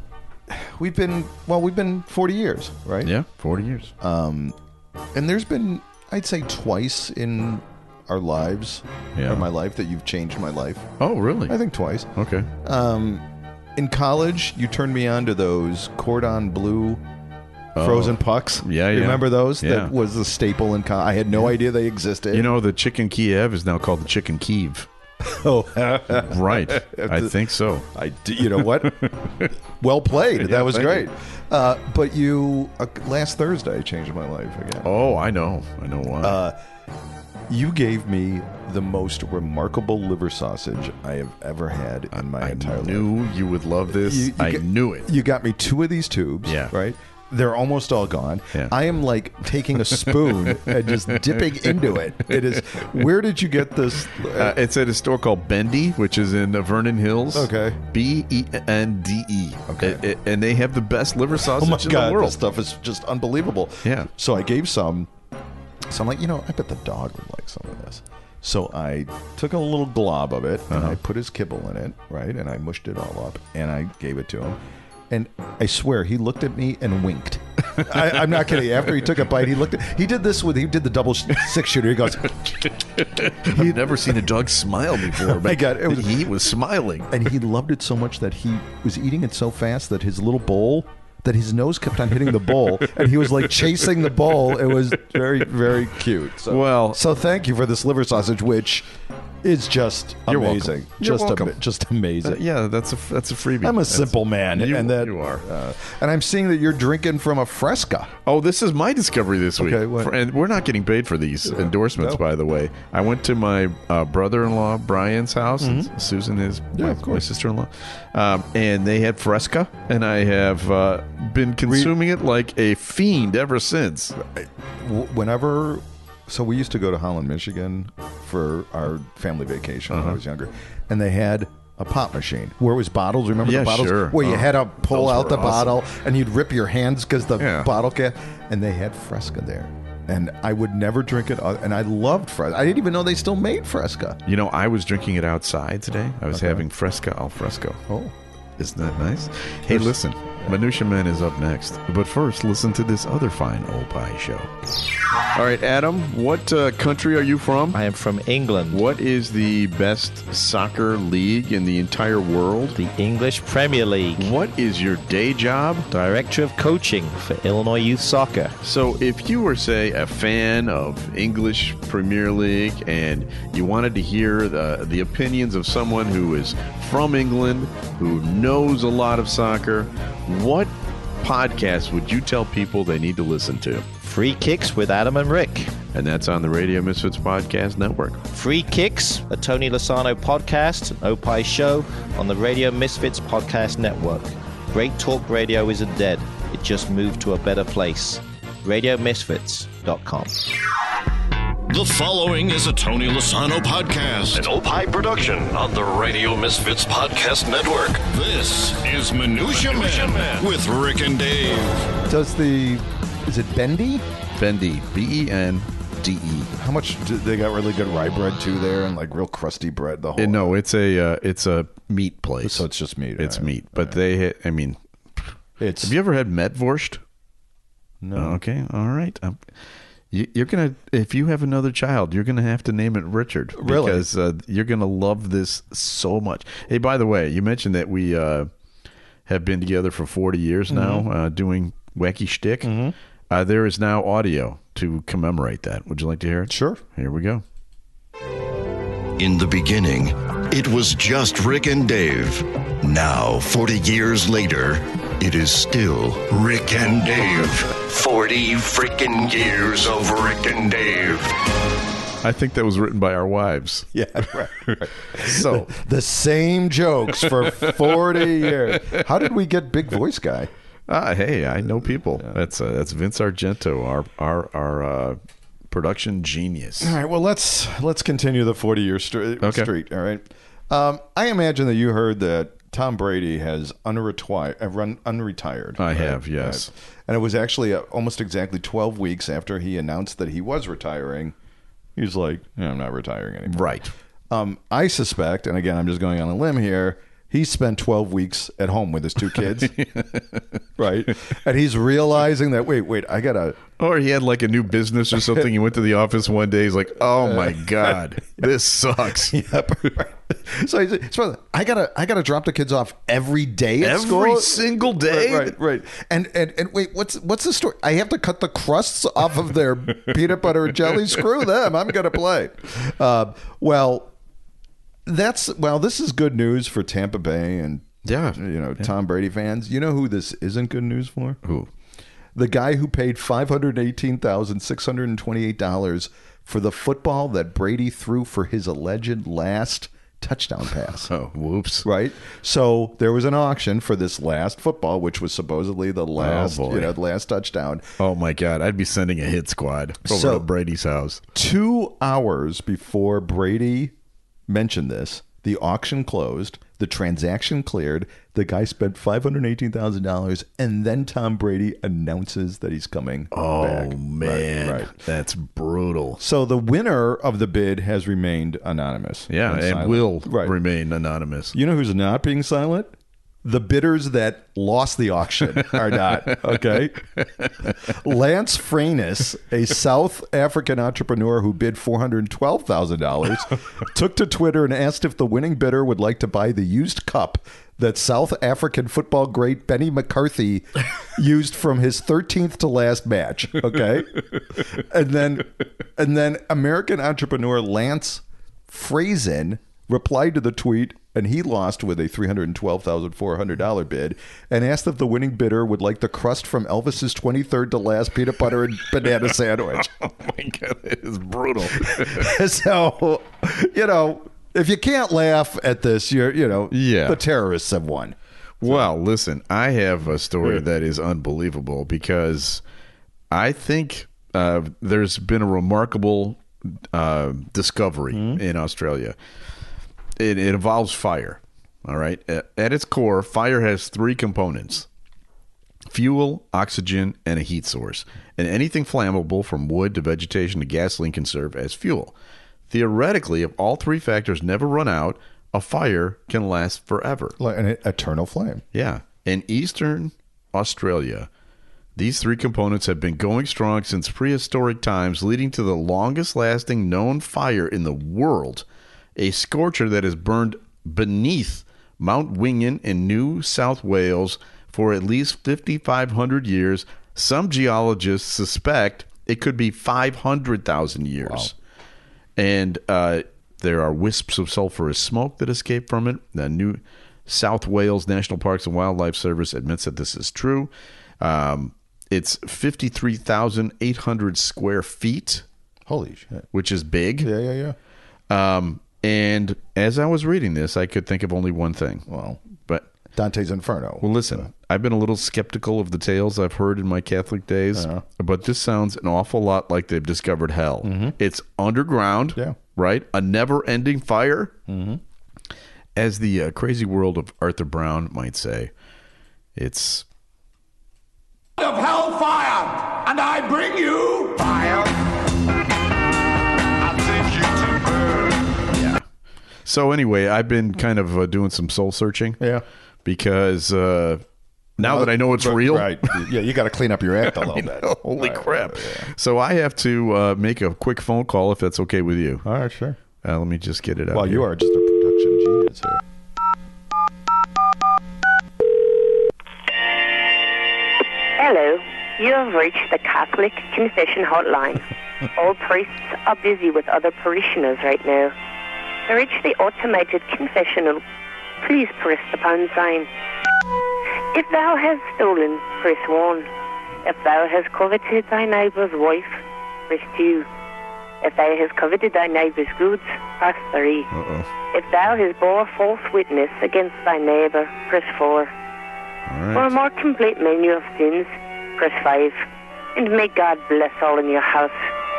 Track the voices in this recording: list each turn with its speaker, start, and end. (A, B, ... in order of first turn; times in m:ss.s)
0:00.5-0:03.1 A
0:03.0-0:03.9 B
0:04.0-0:04.6 A
0:05.1-0:10.9 A
0:09.2-0:09.5 B
0:11.0-0:11.6 B
0:11.5-0:12.1 A
0:12.2-0:12.5 B
0:12.6-0:13.2 A
0:13.8-0:17.0 A
0:17.8-0:19.9 B
0:17.8-0:22.5 A
0:22.3-0:24.9 B
0:25.2-0:27.4 A
0:26.1-0:27.9 B
0:27.9-0:29.2 A
0:29.0-0:29.5 B
0:29.8-0:34.9 A
0:30.4-0:31.1 B
0:34.8-0:36.4 B
0:36.2-0:36.6 A
0:37.5-0:43.1 A
0:42.1-0:45.1 B
0:44.0-0:54.6 A
0:46.5-0:46.7 B
0:49.9-0:52.8 B
0:54.3-1:02.5 B
0:57.3-0:57.8 A
0:59.7-1:00.0 A
1:01.6-1:05.1 A
1:03.8-1:04.1 B
1:05.9-1:14.6 A
1:10.7-1:11.0 B
1:15.1-1:24.0 A
1:23.0-1:27.3 B
1:25.2-1:26.2 A
1:27.1-1:38.9 A
1:33.3-1:33.8 B
1:36.5-1:37.0 B
1:39.4-1:42.4 A
1:40.3-1:41.6 B
1:42.2-1:45.4 B
1:43.6-1:48.1 A
1:48.3-2:04.2 B
1:49.6-1:50.1 A
1:51.5-1:52.2 A
1:55.6-1:55.9 A
1:56.7-1:57.2 A
2:01.7-2:01.9 A
2:04.2-2:24.2 A
2:09.9-2:10.2 B
2:13.4-2:15.8 B
2:17.4-2:17.7 B
2:24.3-2:27.8 B
2:26.3-2:26.6 A
2:28.6-2:34.5 B
2:29.7-2:30.6 A
2:35.3-2:37.8 B
2:37.7-2:38.8 C
2:38.7-2:42.8 B
2:42.8-2:44.3 C
2:44.2-2:45.9 B
2:45.9-2:48.6 C
2:48.6-3:03.9 B
3:04.0-3:05.8 C
3:05.9-3:08.2 B
3:08.3-3:20.5 C
3:21.7-3:31.9 D
3:32.1-3:34.0 A
3:34.4-3:36.5 B
3:36.6-3:40.6 A
3:40.2-3:42.7 B
3:42.4-3:44.0 A
3:43.2-3:45.3 B
3:45.6-3:45.9 A
3:45.8-3:47.0 B
3:48.0-3:48.4 A
3:48.2-3:49.4 B
3:50.1-3:58.5 B
3:53.6-3:54.1 A
3:59.3-4:02.7 B
4:00.7-4:01.1 A
4:02.6-4:03.0 A
4:03.3-4:07.4 B
4:06.5-4:06.8 A
4:09.2-4:21.4 D
4:22.2-4:23.9 B
4:23.9-4:30.5 A
4:24.7-4:25.7 B
4:27.2-4:29.0 B
4:30.9-4:35.2 B
4:35.7-4:37.0 B
4:36.8-4:51.4 A
4:39.4-4:39.7 B
4:45.8-4:46.7 B
4:52.0-4:53.8 A
4:53.5-4:53.9 B
4:54.3-4:59.8 A
4:59.3-5:00.6 B
5:00.8-5:03.6 A
5:03.8-5:09.4 B
5:07.3-5:07.6 A
5:09.3-5:24.1 A
5:13.8-5:15.6 B
5:25.1-5:31.4 A
5:28.0-5:28.9 B
5:31.4-5:31.7 B
5:32.4-5:41.1 A
5:41.1-5:41.9 B
5:41.8-5:47.8 A
5:46.2-5:46.9 B
5:48.0-5:51.2 B
5:50.0-5:50.5 A
5:51.4-5:53.9 A
5:54.5-6:05.0 A
6:03.3-6:06.2 B
6:06.2-6:10.5 A
6:09.3-6:11.6 B
6:11.5-6:17.0 A
6:15.8-6:17.9 B
6:17.8-6:49.9 A
6:49.8-6:52.3 B
6:51.8-6:58.2 A
6:56.7-6:57.2 B
6:58.6-7:02.6 B
7:03.3-7:09.2 B
7:08.1-7:08.4 A
7:10.2-7:14.9 B
7:15.9-7:22.1 B
7:22.7-7:27.4 B
7:27.4-7:28.6 A
7:28.7-7:31.3 B
7:32.0-7:38.6 B
7:39.2-7:51.6 B
7:52.4-8:05.4 B
8:05.9-8:06.5 A
8:06.5-8:07.3 B
8:07.2-8:07.8 A
8:08.3-8:12.9 B
8:12.1-8:12.4 A
8:13.2-8:14.5 A
8:14.0-8:24.6 B
8:17.8-8:18.0 A
8:20.8-8:21.2 A
8:24.7-8:25.0 A
8:26.0-8:28.7 B
8:29.6-8:30.0 B
8:31.7-8:32.5 E
8:33.4-8:34.7 E
8:37.6-8:37.9 E
8:38.7-8:39.0 B
8:39.6-8:42.4 B
8:43.0-8:44.2 B
8:44.8-8:46.4 B
8:44.8-8:49.1 A
8:47.2-8:52.4 B
8:52.4-8:53.0 A
8:53.2-8:54.5 B
8:54.1-8:56.0 A
9:01.4-9:08.3 F
9:09.1-9:11.0 F
9:11.6-9:13.1 F
9:14.3-9:16.5 F
9:17.0-9:20.5 F
9:21.2-9:24.1 F
9:24.1-9:24.5 B
9:24.7-9:28.5 F
9:29.3-9:29.7 B
9:29.5-9:32.4 F
9:33.0-9:34.9 F